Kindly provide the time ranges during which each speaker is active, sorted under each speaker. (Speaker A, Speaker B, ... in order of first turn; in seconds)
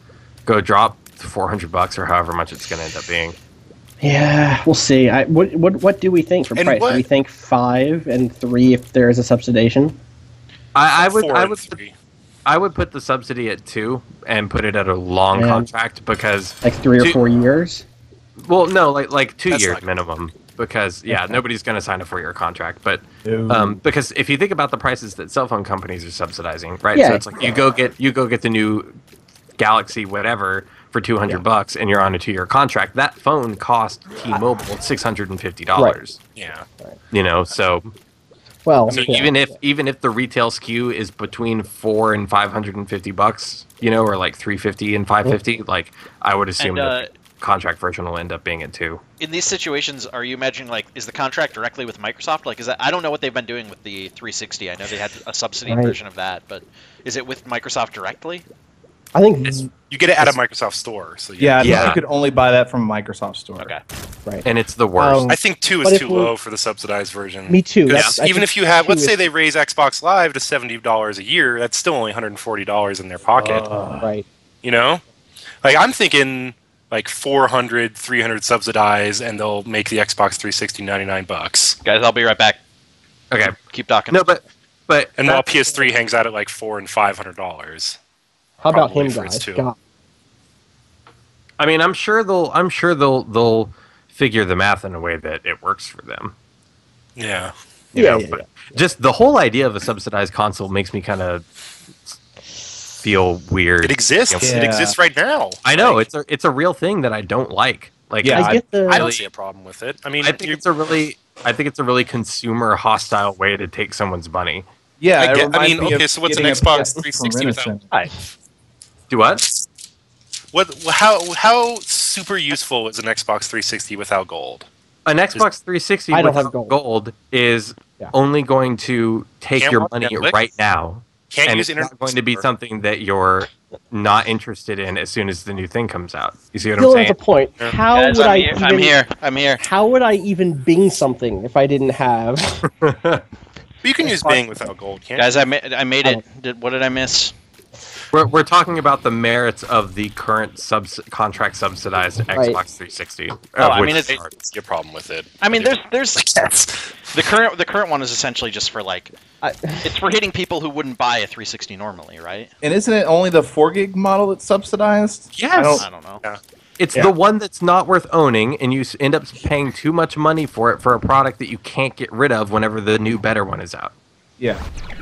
Speaker A: 0.5-3.4, 10.7-11.8, 12.4-17.2, 18.4-29.0, 29.6-36.2, 37.1-37.9, 38.9-49.0, 61.6-62.0, 64.4-65.3, 67.9-68.2, 83.3-83.5, 84.1-85.8, 91.6-96.3, 97.9-101.5, 103.0-104.7, 105.6-109.3, 110.2-114.7, 119.1-119.5, 125.0-137.2, 142.6-143.2, 148.1-154.3, 166.8-173.9
Speaker B: 4.0-10.0, 15.3-15.7, 16.6-17.8, 21.1-21.4, 26.9-27.6, 38.6-39.3, 55.7-55.9, 59.1-59.7, 65.0-66.3, 67.5-69.3, 74.0-74.2, 88.7-89.8, 97.9-98.4, 108.3-109.0, 126.1-126.7, 136.8-138.9, 139.6-142.7, 144.0-144.4, 159.4-159.9
Speaker C: 6.5-7.0, 11.0-11.9, 36.3-36.7, 38.9-39.3, 59.7-62.0, 65.3-73.7, 74.6-75.0, 75.6-81.8, 85.2-88.0, 88.6-89.6, 97.2-97.5, 103.8-106.0, 108.8-110.6, 115.2-117.8, 120.5-124.7, 129.6-130.4, 131.3-132.4, 143.8-145.3, 154.1-157.1, 165.3-166.4
Speaker D: 19.5-19.8, 46.6-47.1, 49.2-58.4, 81.8-82.6, 83.7-84.3, 137.9-139.6, 145.2-147.3, 153.6-154.2, 155.4-156.3, 157.1-159.1, 159.8-162.5, 165.8-166.2
Speaker E: 23.2-23.8, 61.4-63.7, 73.4-74.1, 104.4-105.0, 108.2-108.6, 115.0-117.9, 162.6-165.8